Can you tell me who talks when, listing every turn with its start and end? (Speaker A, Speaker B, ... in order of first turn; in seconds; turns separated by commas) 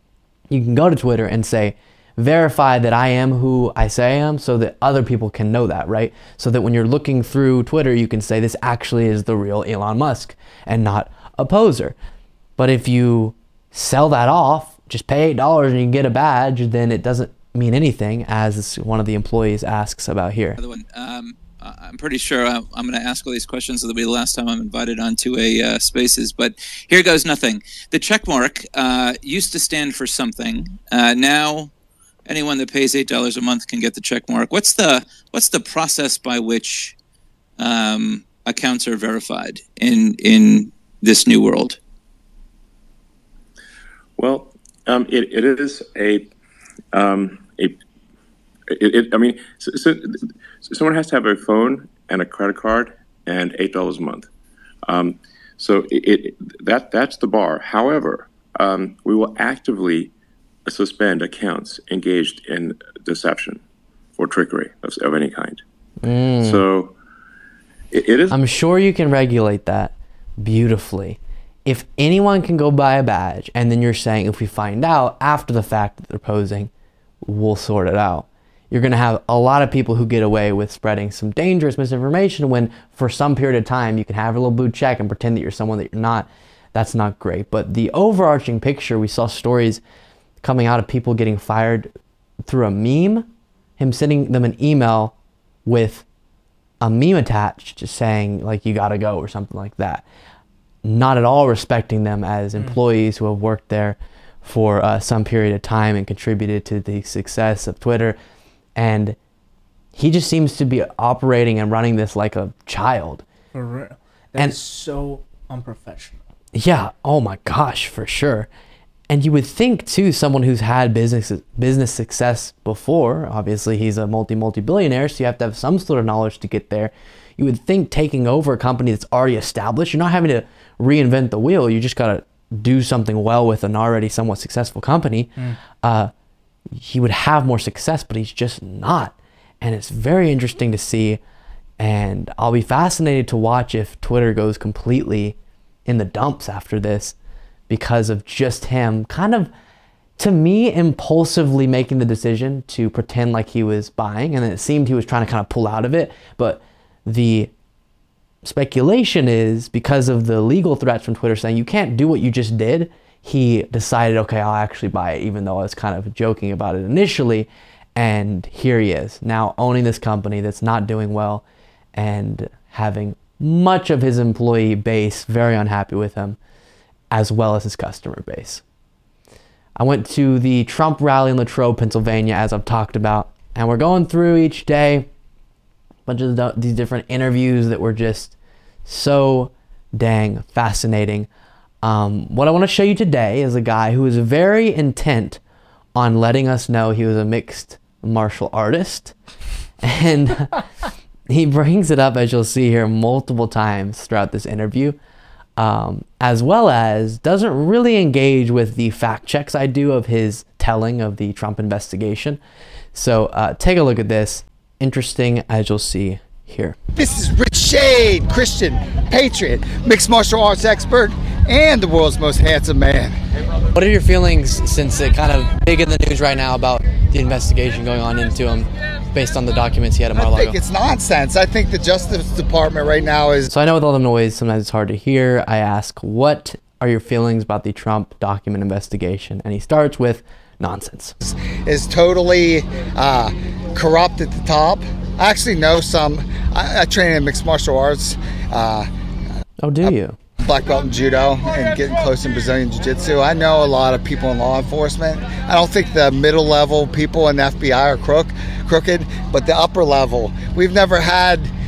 Speaker A: 0.5-11.9, Speaker A: 12.6-20.6, Speaker B: 20.6-31.7, Speaker B: 32.2-36.9, Speaker B: 37.6-41.8, Speaker C: 44.2-46.3, Speaker C: 46.9-47.8, Speaker C: 48.7-54.3, Speaker C: 54.9-60.1, Speaker C: 60.6-63.6, Speaker C: 64.2-65.6, Speaker A: 66.0-66.6, Speaker C: 66.4-66.9, Speaker C: 67.9-68.4, Speaker A: 68.3-76.7, Speaker A: 77.2-89.8, Speaker A: 90.4-91.9, Speaker A: 92.4-95.1, Speaker A: 95.7-96.0, Speaker A: 96.8-100.0, Speaker A: 100.8-108.2, Speaker A: 108.8-109.2, Speaker A: 109.9-113.2, Speaker D: 113.5-116.2, Speaker A: 116.5-118.5, Speaker A: 119.1-136.1, Speaker A: 136.7-141.2, Speaker A: 141.8-147.1, Speaker A: 147.7-149.5, Speaker A: 150.2-157.5, Speaker A: 158.4-171.4, Speaker A: 171.9-176.4, Speaker A: 177.1-178.6, Speaker A: 179.8-185.1, Speaker A: 186.1-191.3, Speaker A: 191.8-195.4, Speaker A: 195.9-199.1, Speaker A: 199.8-200.5, Speaker A: 201.3-205.0, Speaker A: 205.6-212.4, Speaker A: 212.9-216.8, Speaker E: 216.9-223.1, Speaker A: 223.7-230.6, Speaker E: 230.1-233.5, Speaker A: 233.5-241.1, Speaker E: 241.2-248.9, Speaker A: 249.6-250.2, Speaker E: 249.8-261.5